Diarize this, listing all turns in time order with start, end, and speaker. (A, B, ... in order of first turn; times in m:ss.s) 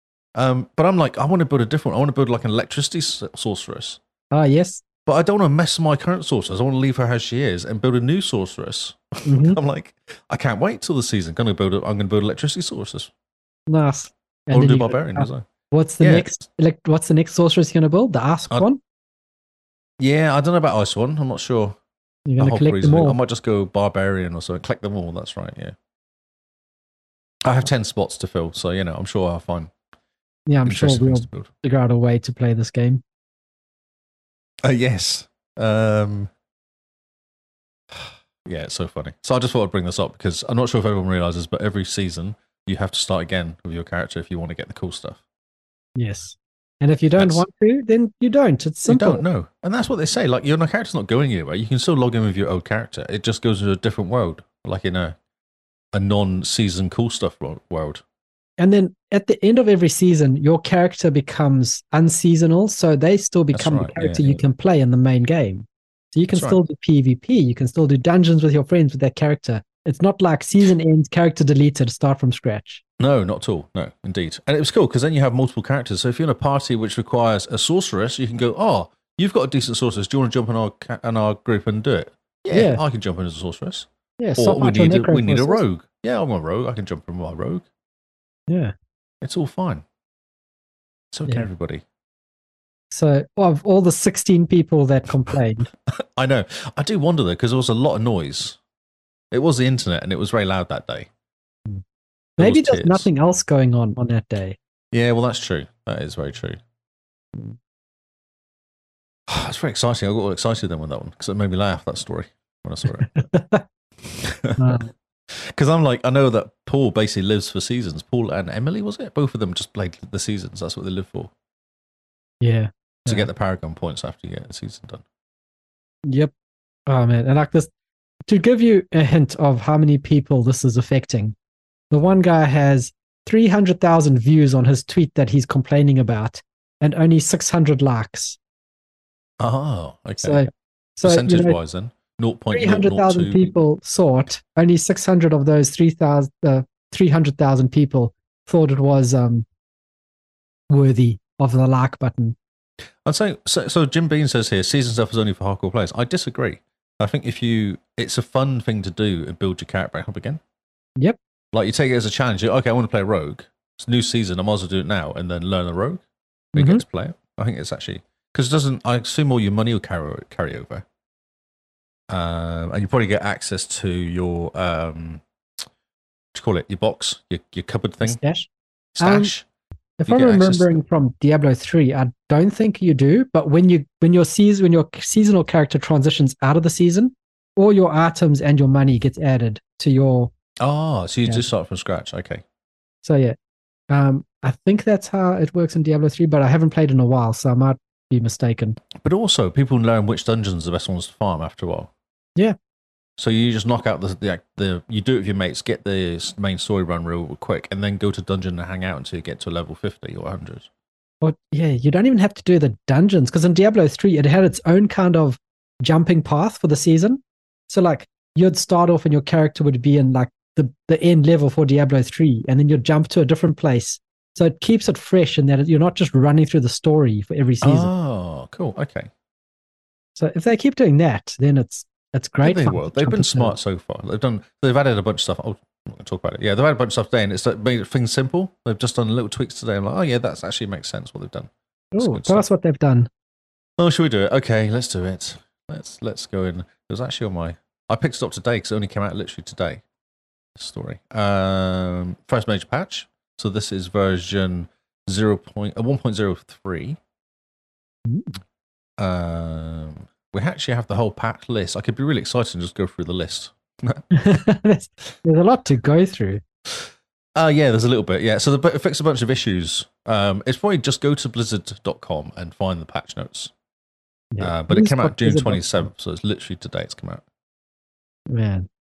0:00.4-0:04.0 A
0:04.3-0:04.8 B
0:05.1-0:13.1 A
0:09.3-0:09.6 B
0:13.7-0:18.8 B
0:14.5-0:15.5 A
0:16.0-0:16.3 A
0:20.0-0:21.8 A
0:22.3-0:23.2 B
0:22.4-0:25.8 A
0:27.4-0:29.7 A
0:30.5-0:33.0 B
0:30.7-0:31.5 A
0:34.6-0:36.3 A
0:37.9-0:45.2 A
0:46.0-0:49.2 B
0:47.2-0:47.4 A
0:48.9-0:55.2 A
0:55.9-0:58.0 A
0:58.6-1:12.8 B
1:03.5-1:04.4 A
1:06.3-1:06.6 A
1:13.0-1:27.7 A
1:22.5-1:22.8 B
1:24.2-1:25.6 B
1:28.5-1:28.7 B
1:29.2-1:29.8 A
1:31.1-1:31.8 A
1:32.9-1:35.7 B
1:35.9-1:38.6 A
1:39.3-1:41.1 A
1:42.4-1:44.6 B
1:42.4-1:43.1 A
1:44.9-1:46.6 A
1:49.3-1:53.2 A
1:53.0-1:53.6 B
1:54.1-2:01.3 A
1:54.6-1:54.9 B
2:02.4-2:03.3 B
2:03.1-2:05.0 A
2:06.9-2:07.7 B
2:08.3-2:11.4 B
2:11.9-2:18.4 B
2:19.4-2:20.5 A
2:20.2-2:21.6 B
2:21.0-2:23.5 A
2:22.5-2:29.5 B
2:30.7-2:32.4 B
2:33.0-2:40.4 A
2:41.5-2:46.0 A
2:46.6-2:46.8 B
2:46.6-2:50.8 A
2:52.1-2:55.2 A
2:56.3-2:58.2 A
2:58.0-2:58.5 B
2:59.0-2:59.5 A
2:59.0-2:59.3 B
3:00.0-3:10.3 B
3:00.1-3:00.8 A
3:10.6-3:12.4 A
3:13.0-3:13.4 B
3:13.9-3:18.8 B
3:19.0-3:21.9 A
3:23.2-3:30.7 A
3:31.2-3:47.9 B
3:47.6-3:49.1 A
3:50.2-3:53.6 B
3:52.4-4:02.5 A
4:02.0-4:03.1 B
4:03.8-4:09.8 A
4:10.6-4:17.0 A
4:18.1-4:18.4 B
4:19.0-4:24.0 A
4:24.1-4:26.4 B
4:26.7-4:33.5 A
4:34.3-4:35.9 B
4:34.4-4:37.2 A
4:38.3-4:38.7 B